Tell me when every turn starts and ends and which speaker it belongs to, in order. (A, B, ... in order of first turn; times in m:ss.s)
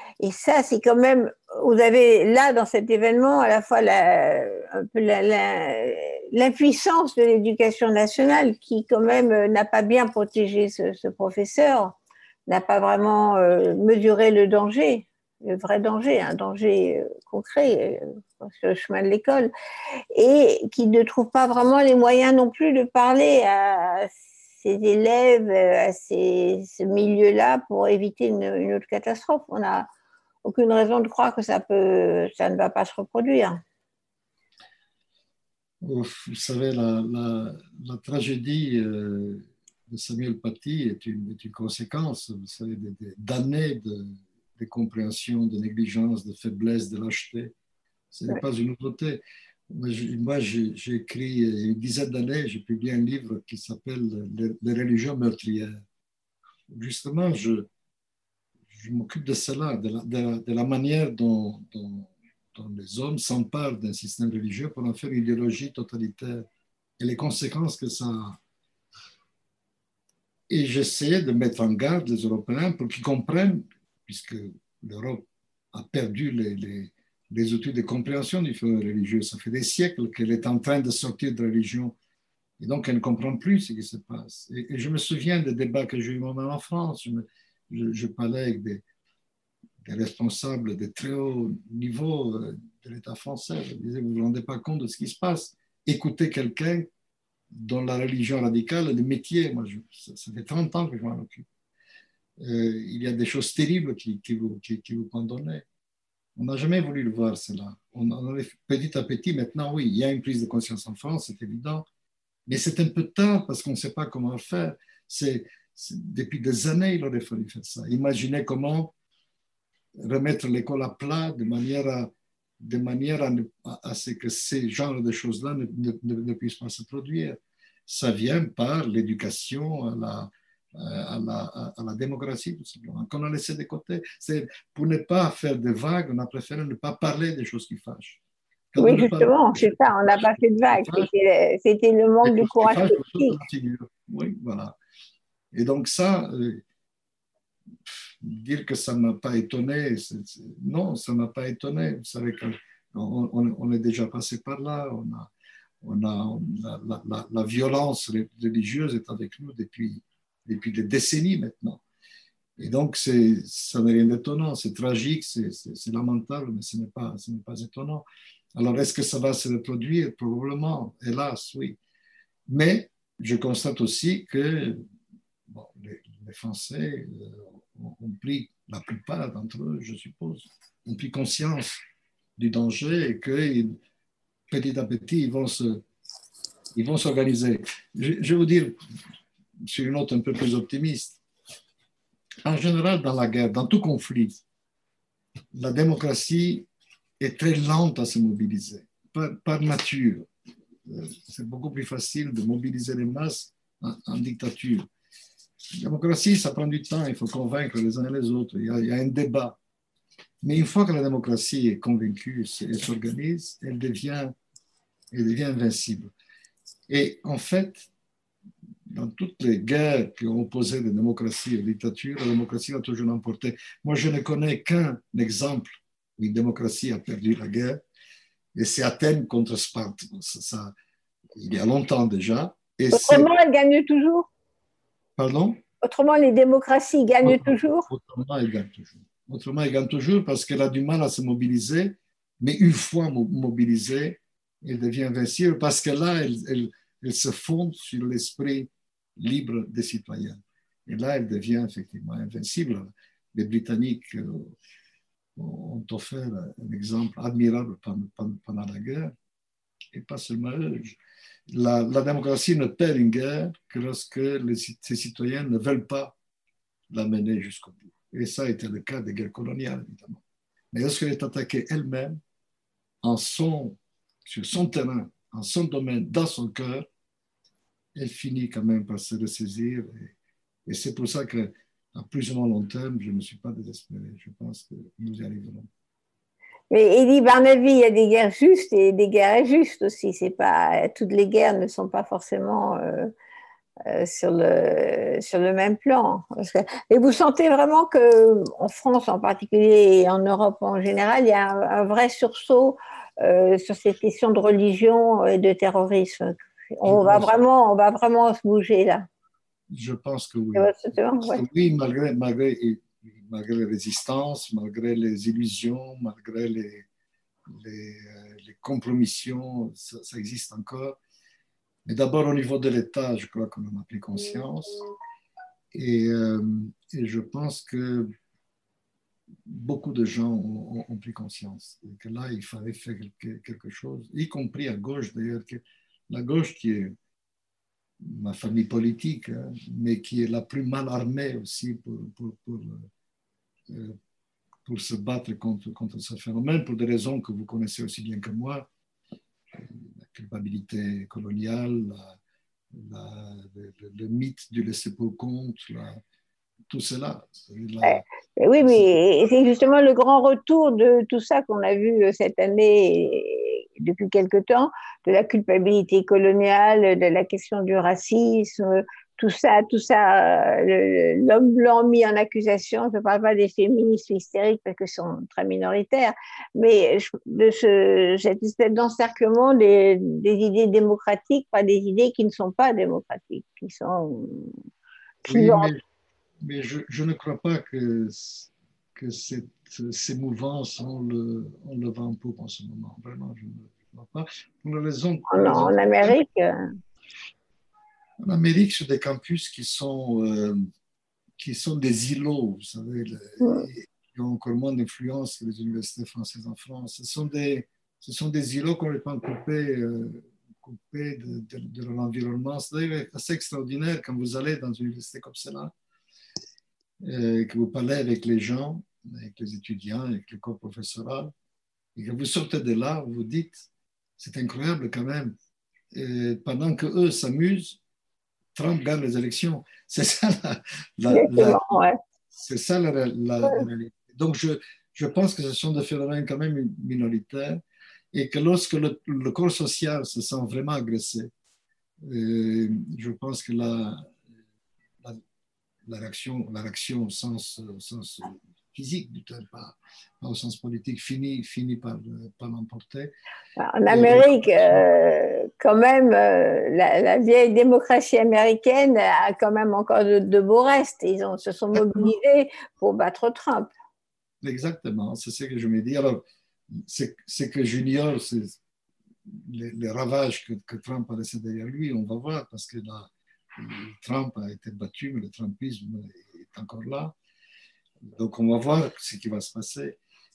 0:00.2-0:12.0 A
0:12.5-0:19.5 A
0:20.1-0:29.9 A
0:30.4-0:33.6 A
0:35.8-0:47.5 B
0:48.1-0:55.8 B
0:56.7-0:57.7 B
0:58.7-1:06.5 B
1:07.0-1:08.4 B
1:10.5-1:22.0 B
1:22.6-1:28.8 B
1:29.8-1:36.9 B
1:37.5-1:41.5 B
1:42.4-1:45.6 B
1:46.4-1:51.9 B
1:52.5-1:58.9 B
2:00.0-2:18.2 B
2:18.7-2:21.1 B
2:18.8-2:23.4 A
2:22.2-2:24.8 B
2:25.5-2:26.6 B
2:28.2-2:35.3 B
2:35.8-2:41.8 B
2:42.6-2:51.8 B
2:52.5-2:54.8 B
2:55.5-3:01.8 B
3:02.4-3:03.8 B
3:04.5-3:05.8 B
3:06.8-3:08.8 B
3:09.6-3:11.2 B
3:12.4-3:14.4 B
3:15.5-3:16.7 B
3:17.2-3:20.3 B
3:20.9-3:24.9 B
3:25.7-3:29.6 B
3:30.4-3:34.4 B
3:35.1-3:36.1 B
3:36.9-3:37.9 B
3:38.9-3:47.8 B
3:48.6-3:50.7 B
3:51.4-3:53.3 B
3:52.9-3:54.3 A
3:55.2-3:55.6 B
3:55.8-3:57.9 A
3:57.2-4:14.5 B
4:15.4-4:19.2 B
4:19.9-4:26.2 B
4:26.9-4:32.2 B
4:33.0-4:36.9 B
4:38.0-4:40.1 B
4:40.7-4:45.7 B
4:46.7-4:53.1 A
4:53.9-5:09.1 A
5:06.8-5:07.4 B
5:09.7-5:16.8 B
5:10.6-5:11.4 A
5:17.5-5:21.0 B
5:21.8-5:24.8 B
5:25.7-5:28.1 B
5:29.4-5:37.0 B
5:38.0-5:42.9 B
5:43.7-5:44.0 B
5:44.6-5:48.7 B
5:49.5-5:52.2 B
5:52.7-5:56.0 B
5:56.7-5:58.0 B
5:57.8-6:24.5 A
5:58.6-5:59.0 B
6:25.2-6:25.7 A
6:25.2-6:25.8 B
6:26.4-6:36.2 B
6:35.3-6:36.7 A
6:38.2-6:40.7 B
6:41.4-6:55.7 B
6:43.4-6:43.7 A
6:57.0-7:01.3 B
7:02.0-7:03.6 B
7:04.2-7:05.4 B
7:05.9-7:07.8 B
7:08.6-7:11.6 B
7:11.1-7:12.0 A
7:12.3-7:17.6 B
7:18.1-7:21.3 B
7:22.0-7:24.2 B
7:25.9-7:33.1 B
7:33.6-7:43.7 A
7:33.9-7:34.9 B
7:41.8-7:42.1 B
7:44.4-7:48.6 B
7:49.3-7:57.2 B
7:58.0-8:00.0 B